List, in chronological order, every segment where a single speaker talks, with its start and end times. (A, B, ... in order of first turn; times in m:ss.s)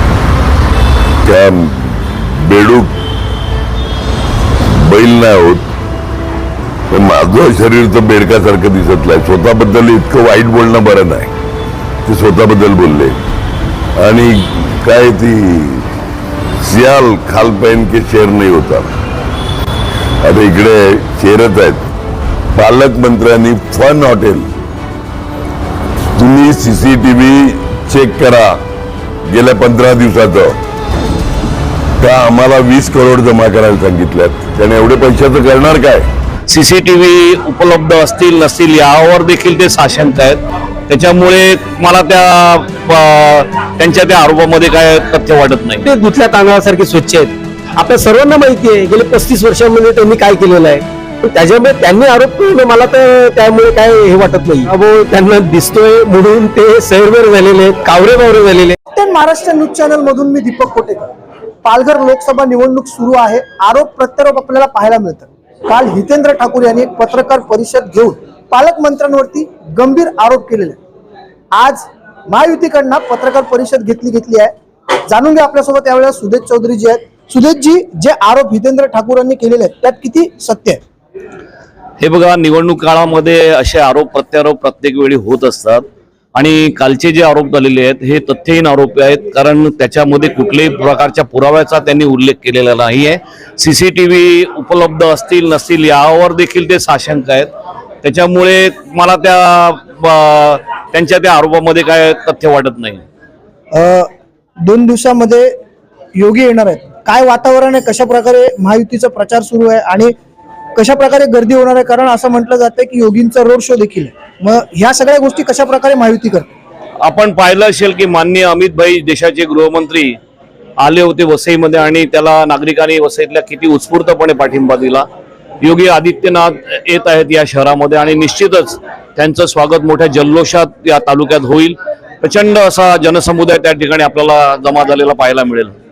0:01.2-0:03.0 A
0:04.7-0:05.6 A
0:06.9-0:11.3 A
0:12.0-0:13.2 A
0:14.0-0:15.9 A
0:16.6-0:18.9 A
0:20.2-0:21.8 A
0:22.5-0:24.5 A
0:26.2-0:28.6 A
0:29.3-0:30.6 A
0:32.0-0:36.1 A
0:36.5-0:45.8 B
0:45.8-0:58.8 C
0:58.9-1:01.1 D
1:01.6-1:10.8 D
1:11.5-1:14.5 D
1:15.1-1:20.8 D
1:22.0-1:25.8 B
1:26.4-1:37.5 B
1:38.0-1:43.0 B
1:43.7-1:44.1 D
1:44.6-1:45.6 D
1:46.2-1:50.1 D
1:50.8-1:56.5 D
1:57.0-2:00.2 B
2:00.8-2:05.1 B
2:05.6-2:15.7 B